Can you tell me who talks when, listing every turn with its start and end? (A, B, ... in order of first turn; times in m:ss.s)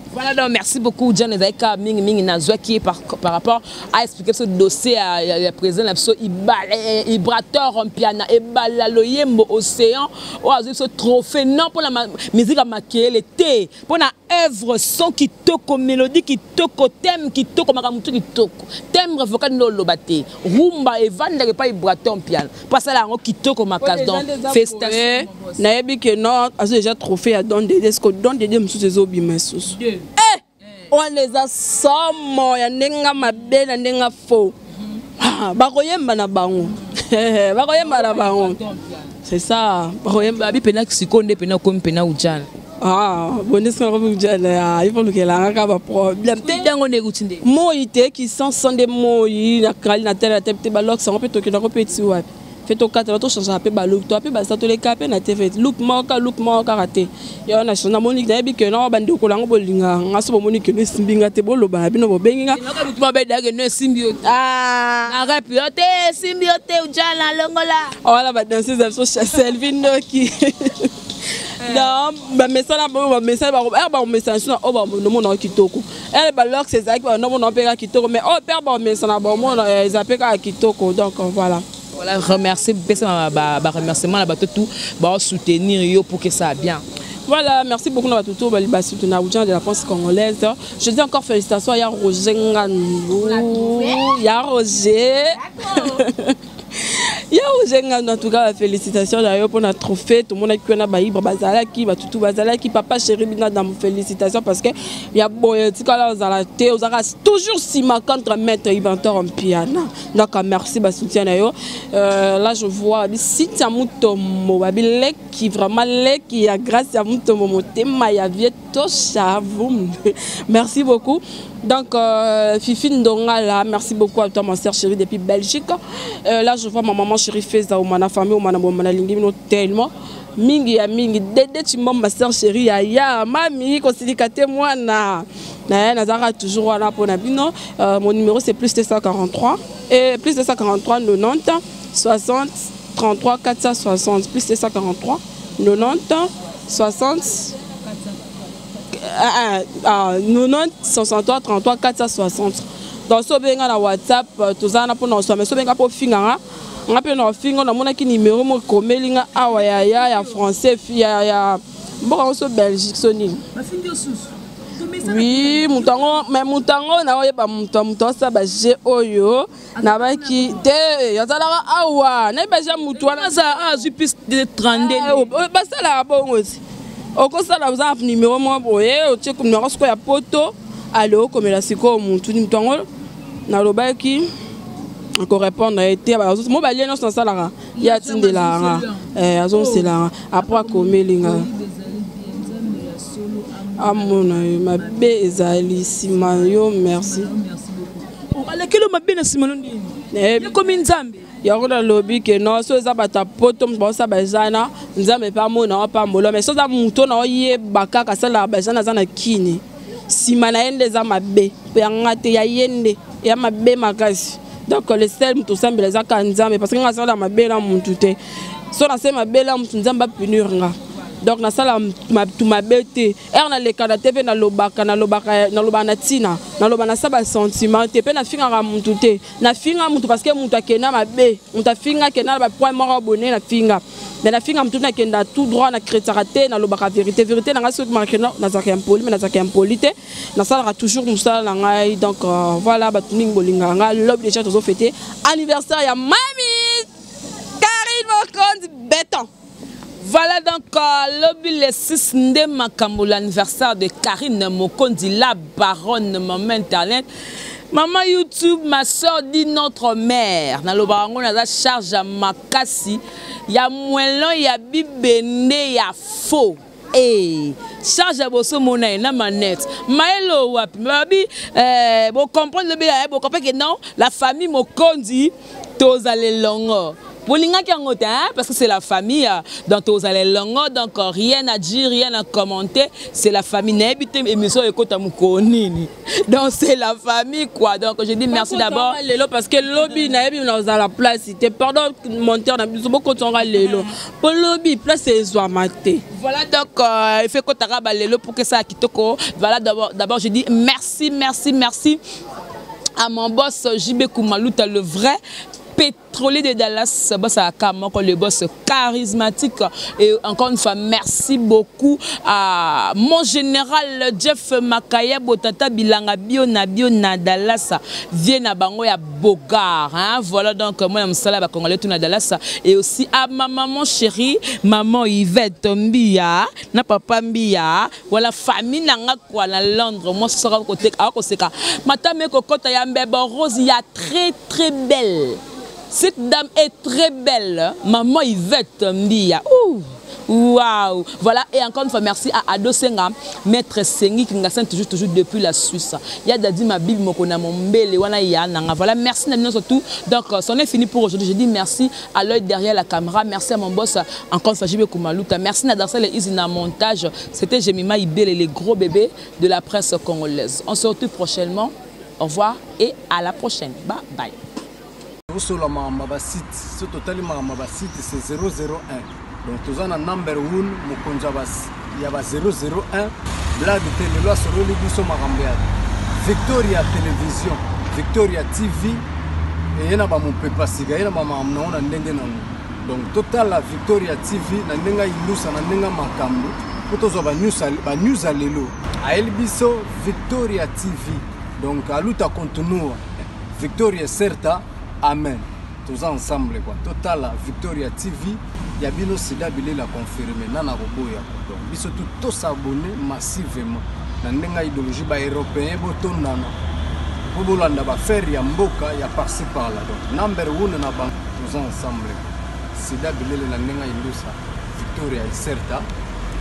0:00.1-0:25.6 A
0:23.8-0:34.6 B
0:29.8-0:30.1 A
0:35.2-0:38.6 B
0:37.8-0:39.1 A
0:39.2-0:40.5 B
0:40.2-0:42.5 A
0:42.8-0:46.7 B
0:46.4-0:47.4 A
0:47.4-1:02.6 B
1:02.5-1:04.2 A
1:04.2-1:05.2 B
1:05.1-1:08.0 A
1:08.0-1:10.9 B
1:11.6-1:21.6 B
1:11.6-1:11.9 A
1:21.9-1:26.8 A
1:27.3-2:27.6 B
1:33.3-1:34.0 A
1:35.5-1:36.0 A
2:28.9-2:43.4 B
2:39.5-2:40.4 A
2:43.5-2:46.2 A
2:45.0-2:53.6 B
2:49.8-2:50.6 A
2:52.9-2:55.3 A
2:54.7-2:56.6 B
2:57.2-3:02.9 B
3:03.5-3:04.3 B
3:05.2-3:11.5 B
3:07.8-3:21.3 A
3:13.8-3:17.3 B
3:20.1-3:20.6 B
3:21.4-3:38.2 B
3:38.7-4:06.9 B
4:07.6-4:09.3 B
4:10.0-4:17.1 A
4:17.7-4:49.0 A
4:48.3-4:56.0 B
4:53.5-4:53.9 A
4:56.1-5:02.0 A
5:03.0-5:05.2 A
5:05.8-6:04.4 A
6:05.3-6:19.0 C
6:19.8-6:33.0 C
6:33.6-6:46.6 C
6:47.3-6:55.9 C